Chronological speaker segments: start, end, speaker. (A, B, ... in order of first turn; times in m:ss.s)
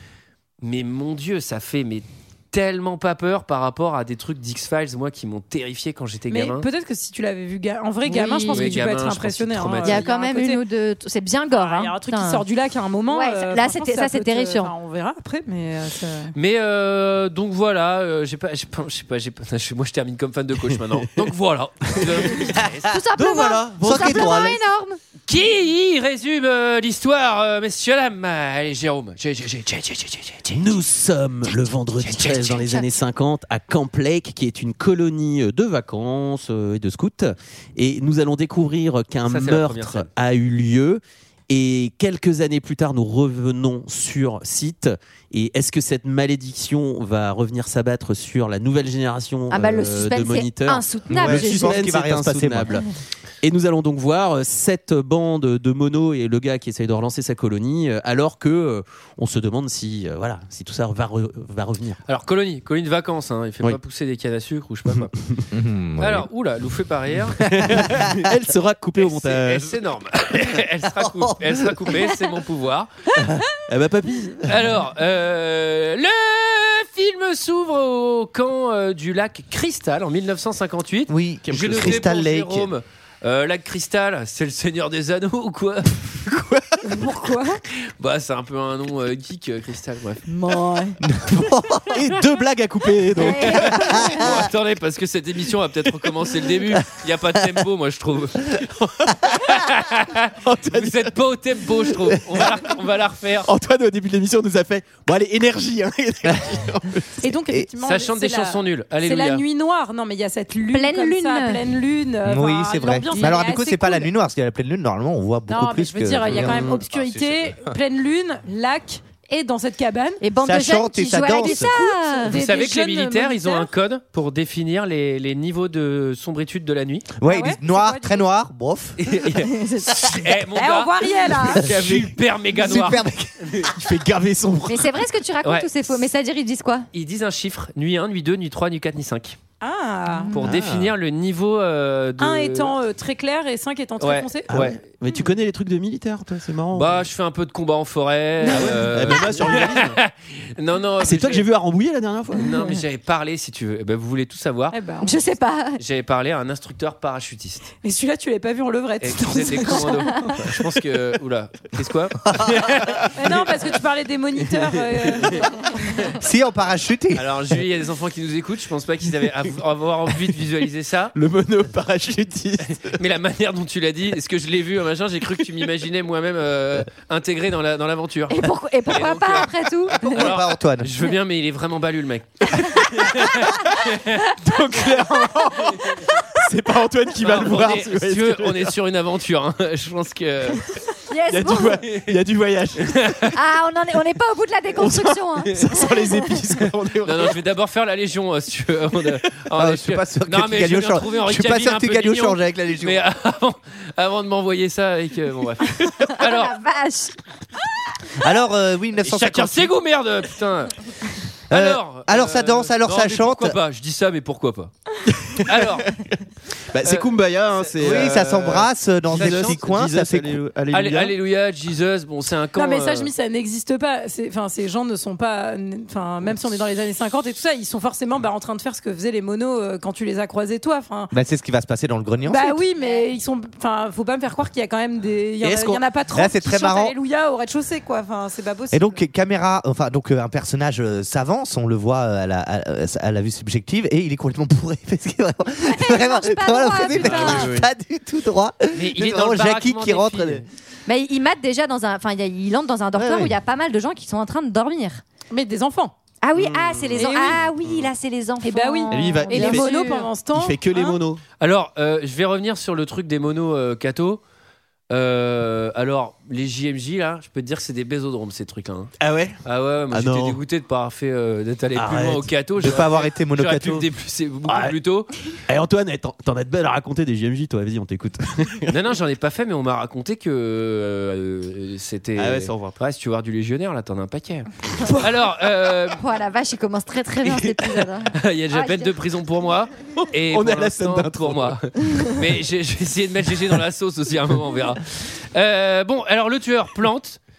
0:00.6-0:06.7 A
0:06.3-0:10.6 B
0:08.0-0:08.8 C
0:08.5-0:10.0 A
0:09.8-0:12.4 C
0:11.5-0:16.3 B
0:13.1-0:14.7 C
0:16.3-0:22.8 A
0:22.0-0:22.6 D
0:22.8-0:25.0 C
0:23.1-0:24.5 D
0:23.8-0:24.6 E
0:25.3-0:30.6 A
0:30.5-0:52.9 D
0:32.0-0:32.6 A
0:39.3-0:40.1 A
0:49.5-0:51.8 C
0:51.1-0:52.8 E
0:53.4-1:02.0 D
1:02.0-1:05.1 A
1:04.9-1:05.5 D
1:05.5-1:06.3 E
1:06.0-1:08.0 A
1:07.4-1:09.8 D
1:07.4-1:08.1 E
1:09.0-1:12.9 A
1:11.0-1:11.6 E
1:13.7-1:14.6 D
1:14.4-1:26.4 A
1:21.1-1:22.7 E
1:21.4-1:22.1 D
1:26.3-1:26.6 D
1:26.8-1:27.6 B
1:28.0-1:30.2 A
1:30.3-1:31.0 C
1:31.0-1:32.1 E
1:31.8-1:33.8 D
1:33.2-1:34.2 C
1:33.3-1:43.5 A
1:33.8-1:34.2 E
1:40.4-1:41.2 D
1:43.5-1:47.1 D
1:46.2-1:46.5 E
1:47.2-1:54.1 B
1:47.3-1:47.7 E
1:47.8-1:49.4 A
1:50.7-1:51.6 C
1:52.2-1:57.8 E
1:55.5-2:00.2 B
1:56.3-1:56.8 D
2:00.2-2:02.4 C
2:00.4-2:01.9 E
2:01.4-2:03.7 B
2:02.3-2:07.1 A
2:07.2-2:09.0 E
2:07.3-2:08.3 B
2:09.0-2:10.9 A
2:09.5-2:09.9 C
2:10.5-2:11.7 B
2:11.6-2:13.7 A
2:11.6-2:12.8 D
2:12.6-2:13.5 E
2:13.6-2:14.9 D
2:14.6-2:16.9 C
2:15.4-2:15.7 A
2:16.9-2:19.4 A
2:19.6-2:20.4 B
2:20.3-2:22.7 A
2:20.4-2:20.9 D
2:22.2-2:24.5 B
2:24.0-2:24.8 A
2:24.5-2:27.1 D
2:25.0-2:25.3 B
2:26.7-2:31.5 A
2:28.4-2:30.0 D
2:31.0-2:32.6 D
2:32.3-2:34.7 A
2:34.7-2:35.2 B
2:35.0-2:35.8 C
2:35.8-2:37.7 A
2:37.8-2:40.6 B
2:39.0-2:42.9 A
2:39.6-2:40.3 C
2:42.3-2:42.7 E
2:43.2-2:46.0 B
2:46.2-2:47.3 E
2:47.1-2:51.1 A
2:51.1-2:53.0 D
2:52.7-3:04.2 A
2:58.3-3:00.3 C
3:00.0-3:00.9 E
3:02.6-3:03.1 D
3:04.4-3:08.7 D
3:04.7-3:05.7 C
3:07.2-3:10.8 A
3:11.1-3:11.8 C
3:11.3-3:13.2 D
3:11.8-3:12.1 A
3:12.8-3:13.3 A
3:13.3-3:16.3 C
3:14.8-3:17.4 D
3:17.0-3:26.6 A
3:19.5-3:23.0 E
3:26.2-3:27.1 C
3:28.2-3:29.7 E
3:29.0-3:30.7 A
3:31.5-3:33.6 E
3:31.5-3:34.7 A
3:35.1-3:36.0 D
3:35.4-3:35.9 A
3:36.7-3:41.1 D
3:36.8-3:38.2 A
3:37.8-3:40.4 E
3:39.1-3:39.6 A
3:40.7-3:43.1 A
3:42.6-3:51.1 B
3:51.1-3:52.6 E
3:52.2-3:59.0 B
3:52.8-3:53.1 C
3:55.4-3:55.8 D
3:56.1-3:57.0 E
3:58.7-4:10.4 E
4:05.6-4:07.5 C
4:07.0-4:07.6 D
4:08.7-4:10.4 A
4:10.9-4:15.0 C
4:12.9-4:13.4 E
4:15.3-4:15.9 B
4:16.2-4:20.1 C
4:16.3-4:17.9 D
4:17.0-4:17.4 B
4:18.4-4:21.0 B
4:18.9-4:19.7 D
4:20.3-4:21.2 D
4:21.4-4:24.2 A
4:24.9-4:35.1 A
4:29.0-4:29.4 D
4:29.9-4:30.4 D
4:31.7-4:32.3 D
4:32.6-4:33.8 E
4:34.5-4:34.8 D
4:35.5-4:38.8 D
4:38.7-4:46.0 A
4:42.2-4:42.8 D
4:46.0-4:48.9 C
4:47.3-4:57.2 A
4:50.3-4:51.6 D